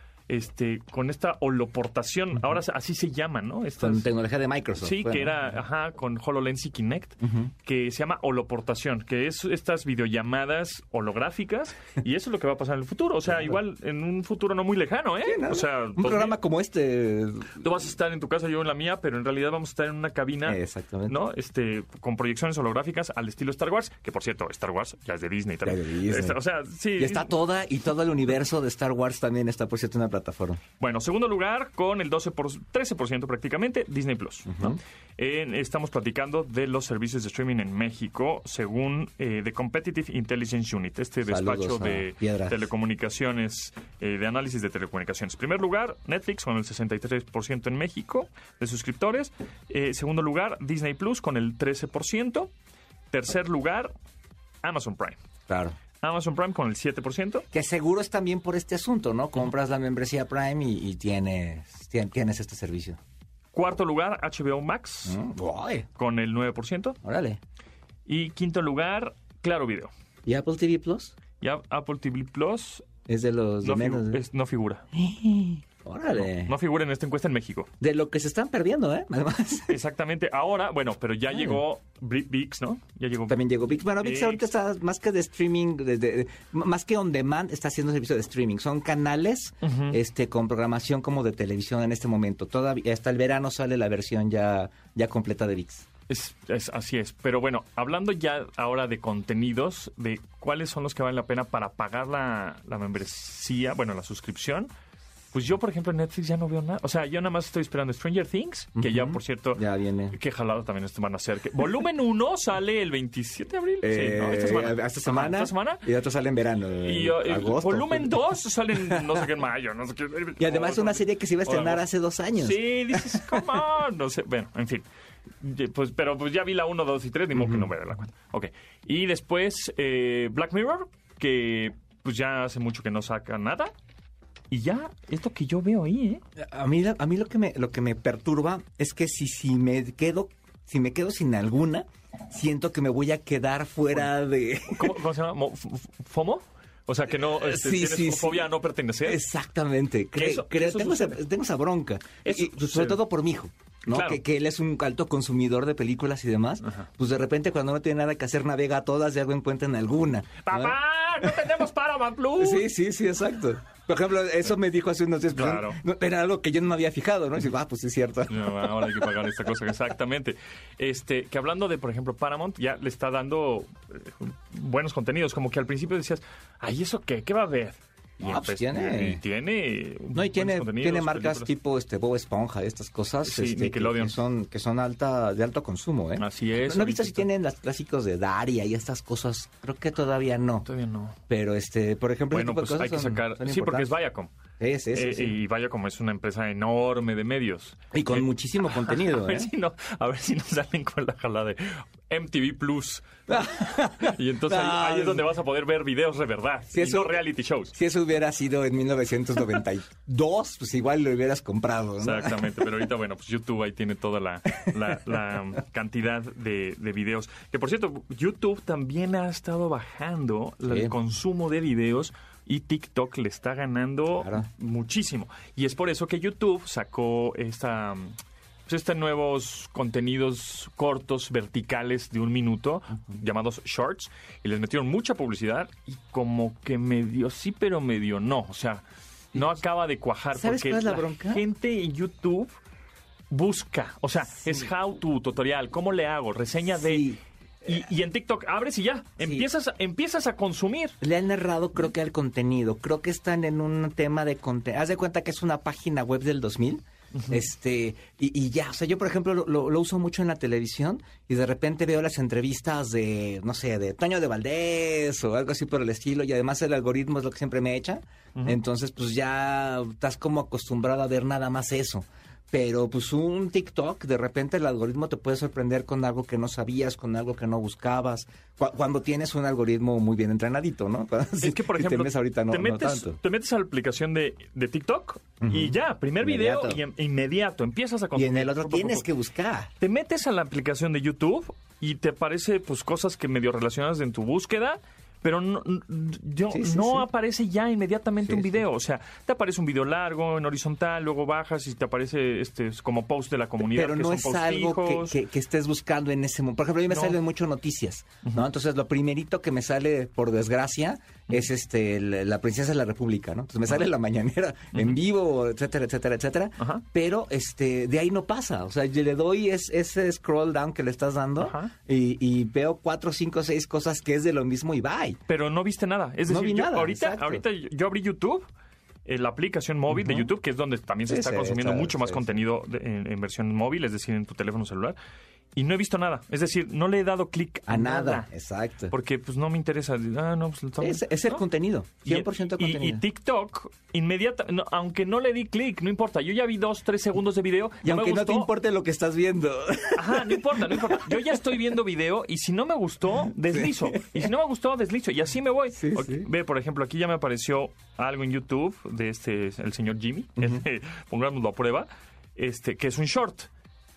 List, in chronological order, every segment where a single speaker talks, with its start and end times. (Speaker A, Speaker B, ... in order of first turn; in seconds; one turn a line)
Speaker A: 0.3-4.1
Speaker B: 3.8-5.3
Speaker A: 4.8-16.4
Speaker B: 7.2-7.5
Speaker B: 13.3-13.5
Speaker B: 15.2-17.6
Speaker A: 17.6-27.3
Speaker B: 20.4-21.1
Speaker B: 25.6-26.4
Speaker B: 27.0-30.6
Speaker A: 30.8-52.5
Speaker B: 34.5-34.8
Speaker B: 41.3-42.6
Speaker A: 53.1-53.9
Speaker A: 54.6-55.2
Speaker B: 55.5-55.8
Speaker A: 56.0-57.5
Speaker B: 57.5-63.0
Speaker A: 63.5-65.2
Speaker B: 65.0-65.9
Speaker A: 66.0-67.0
Speaker B: 67.0-67.4
Speaker A: 68.0-69.9
Speaker B: 70.2-71.1
Speaker A: 71.4-72.9
Speaker B: 73.1-74.2
Speaker A: 73.6-74.8
Speaker B: 74.9-76.5
Speaker A: 76.1-77.7
Speaker B: 77.8-79.8
Speaker A: 79.7-83.4
Speaker B: 81.3-81.6
Speaker B: 83.3-95.9
Speaker A: 84.0-84.4
Speaker A: 89.6-90.0
Speaker A: 96.1-104.7
Speaker A: 105.3-115.8
Speaker B: 108.8-110.2
Speaker B: 113.8-118.2
Speaker A: 116.8-124.8
Speaker B: 120.4-123.5
Speaker A: 125.4-133.7
Speaker B: 127.3-127.7
Speaker A: 134.5-136.2
Speaker B: 136.4-145.0
Speaker A: 144.7-149.2
Speaker B: 147.1-148.5
Speaker B: 149.0-161.2
Speaker A: 150.1-151.2
Speaker A: 152.2-153.0
Speaker A: 153.9-154.2
Speaker A: 160.4-162.7
Speaker B: 162.4-169.1
Speaker A: 165.3-165.8
Speaker A: 168.3-181.5
Speaker B: 178.2-179.2
Speaker B: 180.1-190.7
Speaker A: 183.2-184.2
Speaker A: 186.2-187.3
Speaker A: 190.6-191.2
Speaker B: 191.3-193.9
Speaker A: 192.3-194.3
Speaker B: 194.6-195.3
Speaker A: 194.9-203.1
Speaker B: 197.9-199.5
Speaker B: 203.3-205.3
Speaker A: 204.0-207.7
Speaker B: 206.7-207.2
Speaker B: 207.7-212.6
Speaker A: 212.0-242.5
Speaker B: 220.7-220.9
Speaker B: 224.2-224.4
Speaker B: 240.3-241.4
Speaker A: 243.3-247.1
Speaker B: 246.7-247.8
Speaker A: 247.6-250.9
Speaker B: 249.2-249.5
Speaker B: 251.0-283.2
Speaker A: 281.4-289.1
Speaker B: 285.4-286.8
Speaker B: 288.1-289.7
Speaker A: 289.8-305.2
Speaker B: 296.5-297.1
Speaker B: 298.2-298.6
Speaker B: 303.6-325.2
Speaker A: 306.9-307.2
Speaker A: 316.6-316.8
Speaker A: 321.4-321.7
Speaker A: 325.3-328.4
Speaker B: 326.3-327.4
Speaker A: 329.0-335.0
Speaker B: 329.9-330.3
Speaker B: 331.1-332.3
Speaker A: 335.5-338.3
Speaker B: 337.7-338.9
Speaker A: 338.9-341.4
Speaker B: 340.8-343.0
Speaker A: 342.0-348.5
Speaker B: 347.8-351.3
Speaker A: 349.9-363.5
Speaker B: 353.4-354.3
Speaker B: 355.8-356.3
Speaker B: 360.4-360.6